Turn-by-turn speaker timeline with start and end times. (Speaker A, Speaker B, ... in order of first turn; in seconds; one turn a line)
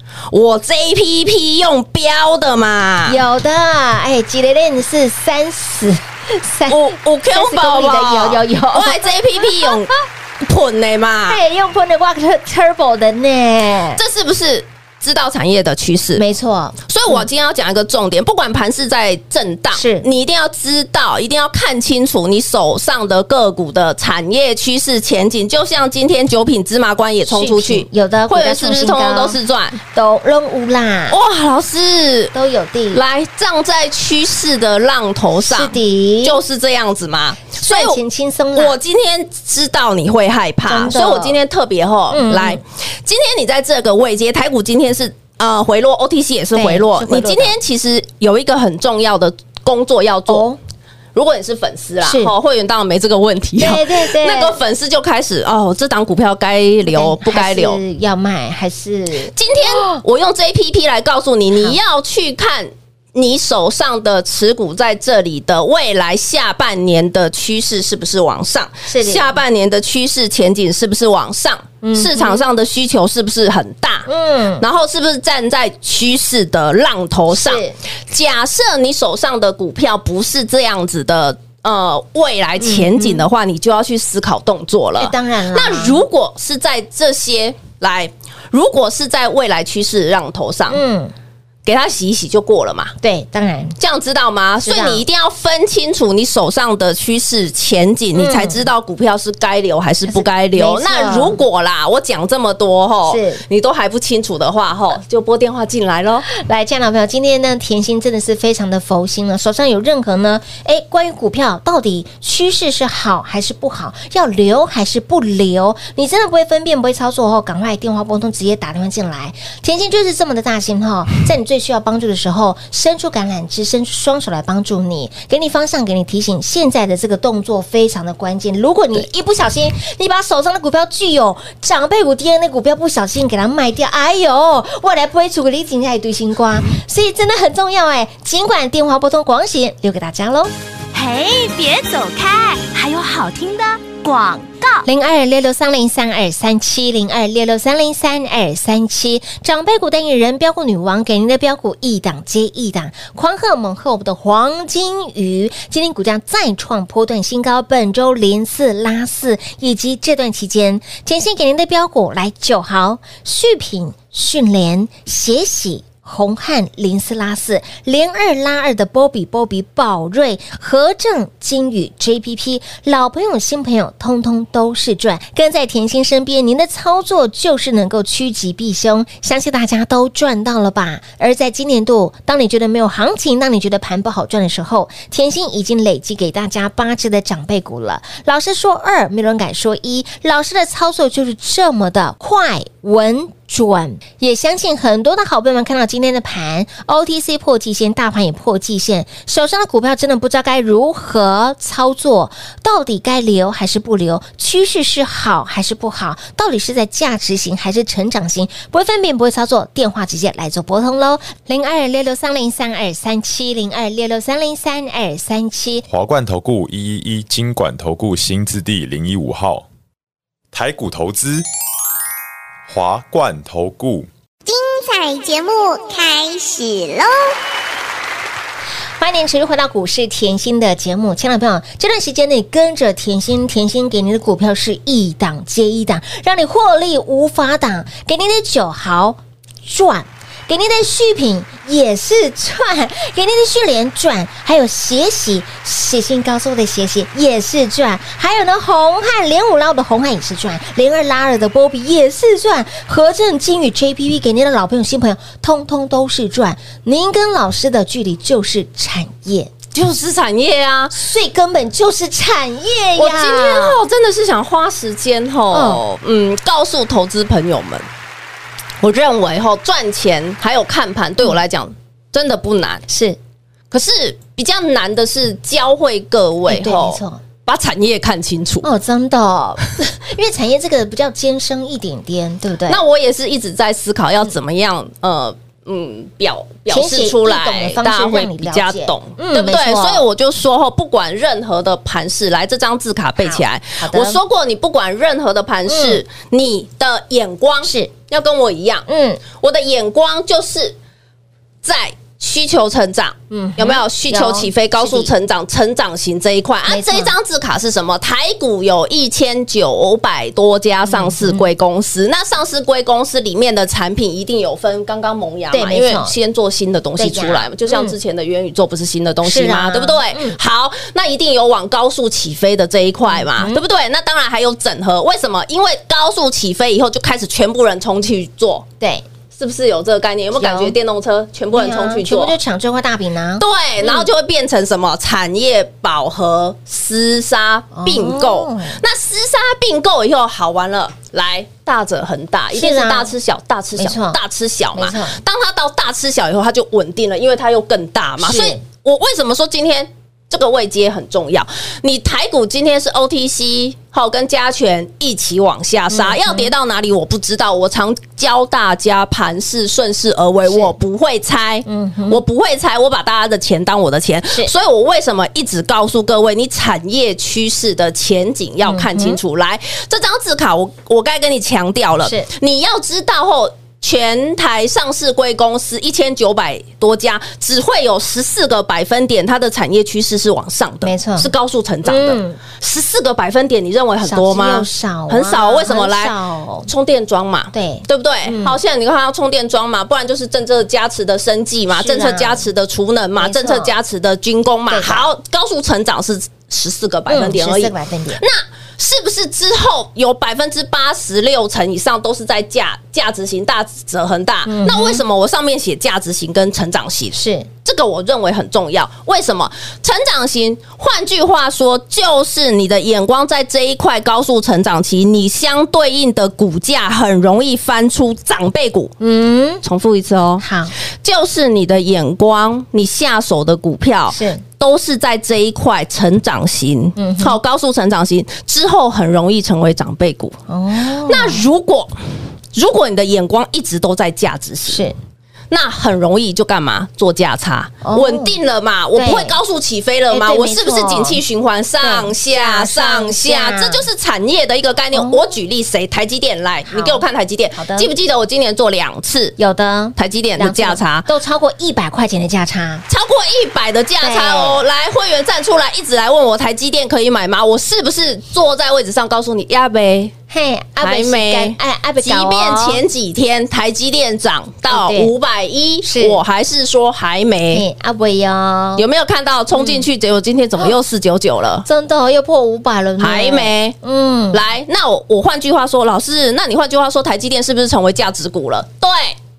Speaker A: 0.3-3.2
Speaker B: 3.0-9.8
Speaker A: 6.7-11.4
Speaker B: 11.3-14.0
Speaker A: 13.9-16.2
Speaker B: 16.1-17.2
Speaker A: 16.9-29.8
Speaker B: 19.7-20.1
Speaker B: 27.3-31.2
Speaker A: 31.1-32.3
Speaker B: 32.3-33.0
Speaker A: 32.9-38.0
Speaker B: 35.4-36.4
Speaker B: 37.5-38.8
Speaker A: 38.5-50.5
Speaker B: 40.6-41.4
Speaker B: 42.1-42.6
Speaker B: 46.5-47.5
Speaker B: 50.3-50.6
Speaker A: 51.1-57.8
Speaker B: 52.0-52.3
Speaker B: 53.6-54.6
Speaker B: 56.9-60.0
Speaker A: 59.3-74.1
Speaker B: 68.9-69.4
Speaker B: 71.8-72.4
Speaker B: 74.1-74.6
Speaker A: 74.6-90.8
Speaker B: 77.3-77.8
Speaker B: 82.6-83.2
Speaker B: 85.0-86.0
Speaker B: 90.7-91.1
Speaker A: 91.6-92.9
Speaker B: 93.0-93.8
Speaker A: 93.8-106.3
Speaker B: 94.6-95.0
Speaker B: 98.1-98.7
Speaker B: 100.0-101.4
Speaker B: 103.1-103.4
Speaker B: 106.3-140.5
Speaker C: 140.9-144.8
Speaker B: 144.8-215.8
Speaker D: 215.9-219.7
Speaker D: 220.5-221.4
Speaker D: 222.7-224.1
Speaker E: 224.4-227.3
Speaker B: 229.0-259.5
Speaker A: 259.7-260.9
Speaker B: 260.9-263.8
Speaker A: 263.0-267.9
Speaker B: 265.5-265.8
Speaker A: 268.8-272.8
Speaker B: 272.9-273.2
Speaker A: 273.7-278.7
Speaker B: 276.5-277.2
Speaker B: 278.6-282.8
Speaker A: 282.7-300.8
Speaker B: 286.7-290.0
Speaker B: 293.2-294.2
Speaker B: 295.7-296.0
Speaker B: 297.6-297.9
Speaker B: 298.9-299.2
Speaker A: 301.6-328.6
Speaker B: 303.3-305.1
Speaker B: 306.7-307.1
Speaker B: 310.8-311.5
Speaker B: 315.5-316.1
Speaker B: 317.0-317.9
Speaker B: 319.2-320.4
Speaker B: 323.1-323.6
Speaker B: 328.8-329.0
Speaker A: 329.3-332.4
Speaker B: 330.3-330.7
Speaker B: 331.5-334.1
Speaker A: 333.4-386.1
Speaker B: 337.7-338.8
Speaker B: 342.5-343.1
Speaker B: 343.8-344.2
Speaker B: 344.7-345.2
Speaker B: 348.2-348.6
Speaker B: 355.9-356.5
Speaker B: 360.5-360.7
Speaker B: 361.6-362.2
Speaker B: 368.6-369.2
Speaker B: 372.0-372.3
Speaker B: 380.8-381.3
Speaker B: 381.8-382.4
Speaker B: 384.0-386.7
Speaker A: 386.6-418.9
Speaker B: 387.5-388.6
Speaker B: 391.7-392.5
Speaker B: 393.2-393.7
Speaker B: 394.7-395.1
Speaker B: 397.1-398.2
Speaker B: 404.4-405.0
Speaker B: 407.1-407.5
Speaker B: 419.0-419.6
Speaker A: 419.6-420.4
Speaker B: 420.4-420.7
Speaker A: 421.0-430.4
Speaker B: 424.1-424.4
Speaker B: 427.0-427.4
Speaker B: 430.5-431.4
Speaker A: 431.0-431.9
Speaker A: 432.5-434.9
Speaker B: 434.7-434.9
Speaker A: 435.5-449.4
Speaker B: 437.8-438.3
Speaker B: 438.9-439.4
Speaker B: 440.1-441.2
Speaker B: 441.8-443.9
Speaker B: 444.9-445.2
Speaker B: 446.7-447.0
Speaker B: 447.5-447.9
Speaker B: 449.4-452.9
Speaker A: 449.9-451.1
Speaker A: 452.9-460.1
Speaker B: 454.0-454.6
Speaker B: 460.3-462.8
Speaker A: 460.8-467.6
Speaker B: 464.7-465.1
Speaker B: 465.8-466.2
Speaker B: 467.5-468.8
Speaker A: 468.8-471.6
Speaker B: 469.5-469.9
Speaker B: 471.6-474.4
Speaker A: 473.0-473.8
Speaker A: 474.3-479.2